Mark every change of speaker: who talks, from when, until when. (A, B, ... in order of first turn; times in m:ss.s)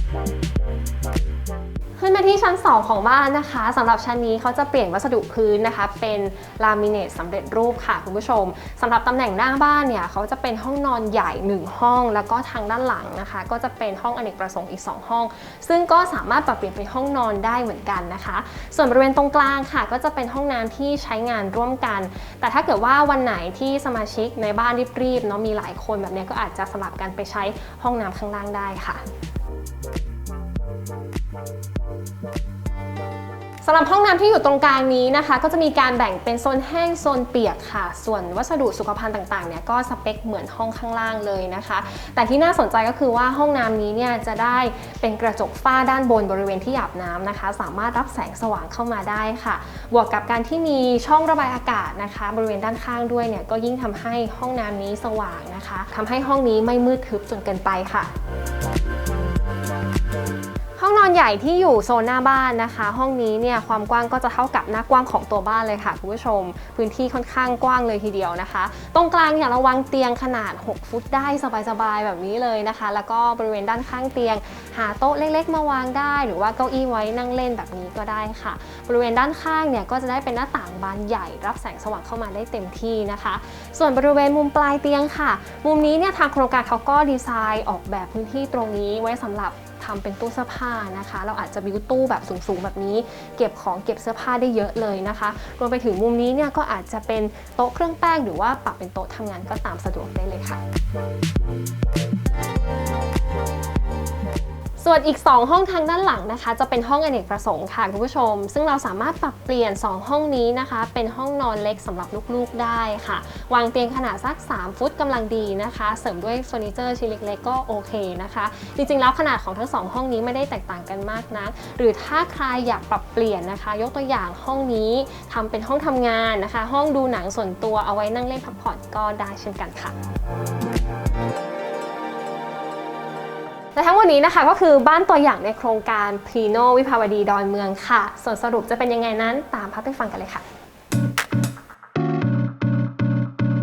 0:02.0-0:29.0 A
0:33.6-0:58.1 A
1:00.8-1:40.6 A
1:44.8-2:09.9 A
2:13.7-2:20.4 A